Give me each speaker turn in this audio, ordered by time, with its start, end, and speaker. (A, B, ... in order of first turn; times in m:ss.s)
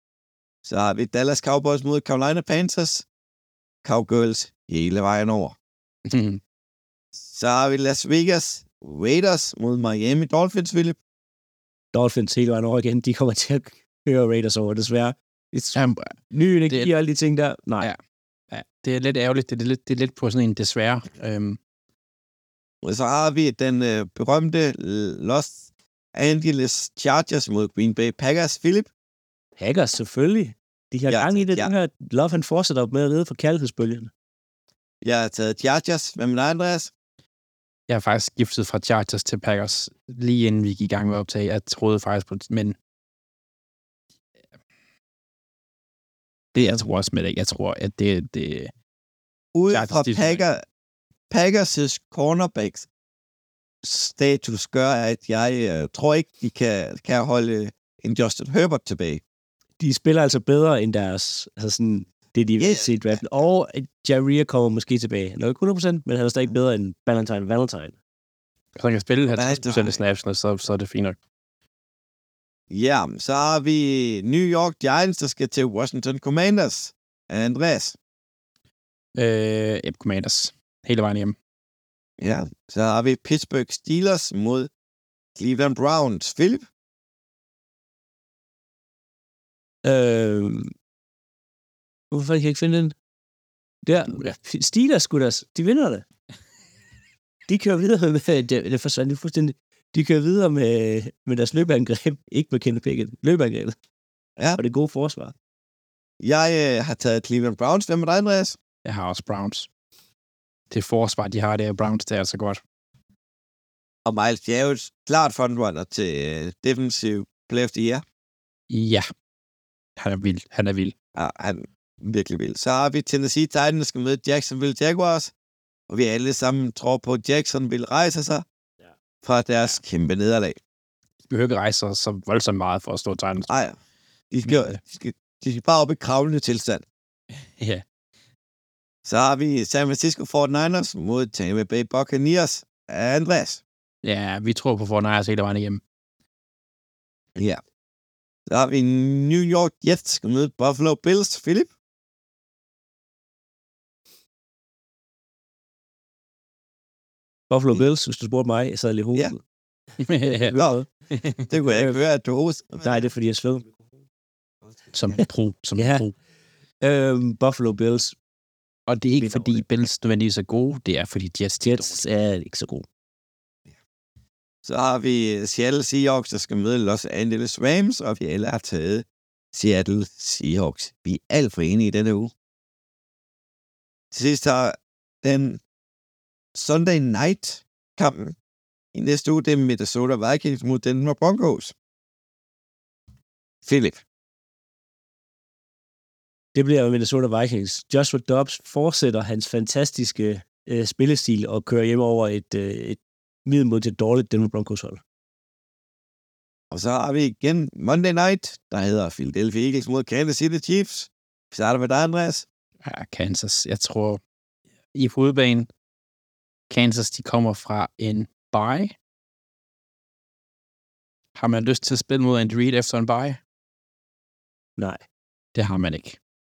0:00.6-0:03.0 A
0:03.8-0:05.6 A
0:06.1-0:06.4 B
0:07.2-0:11.0 A
0:11.9-0:15.8 C
0:15.8-0:16.1 B
0:16.3-0:17.9 C
0:18.5-0:21.6 B
0:22.8-0:28.9 A
0:29.6-0:34.1 C
0:31.1-0:31.7 A
0:35.0-0:36.9 A
0:37.9-0:42.8 B
0:46.6-0:48.7 B
0:49.6-0:50.6 A
0:49.7-0:50.4 B
0:51.3-0:52.9 A
0:53.8-0:59.2 A
0:59.8-1:08.0 C
1:02.6-1:03.2 A
1:08.8-1:11.2 B
1:09.3-1:10.0 A
1:12.7-1:18.0 A
1:19.2-1:21.4 B
1:22.2-1:24.7 A
1:25.4-1:26.7 A
1:29.8-1:30.7 C
1:32.1-1:33.0 C
1:33.9-1:36.0 C
1:37.5-1:43.8 C
1:44.6-1:45.3 C
1:46.2-1:48.6 A
1:48.8-1:49.7 B
1:50.7-1:52.6 B
1:54.0-1:58.0 A
1:58.7-1:59.1 B
2:00.0-2:00.9 B
2:01.2-2:05.3 A
2:05.9-2:08.4 A
2:09.2-2:10.6 A
2:11.3-2:13.5 B
2:13.5-2:13.8 A
2:14.3-2:16.8 A
2:14.5-2:14.8 B
2:17.6-2:17.8 B
2:19.0-2:23.6 A
2:24.0-2:25.8 B
2:27.4-2:27.6 A
2:28.5-2:31.7 A
2:37.5-2:39.4 C
2:40.0-2:40.6 B
2:40.3-2:40.8 C
2:40.5-2:40.8 A
2:41.1-2:41.5 B
2:41.5-2:43.1 A
2:41.7-2:42.0 C
2:42.8-2:43.7 C
2:44.9-2:46.1 B
2:45.8-2:46.0 C
2:46.8-2:48.2 C
2:48.9-2:52.0 B
2:49.2-2:49.6 C
2:51.6-2:52.9 C
2:54.6-3:02.3 A
3:04.1-3:05.6 A
3:06.6-3:08.4 A
3:08.9-3:11.8 A
3:13.6-3:14.0 A
3:16.6-3:25.0 C
3:26.7-3:32.5 A
3:32.8-3:34.2 B
3:34.9-3:35.7 B
3:36.7-3:39.0 B
3:41.4-3:43.4 B
3:44.8-3:45.0 C
3:45.6-3:46.2 B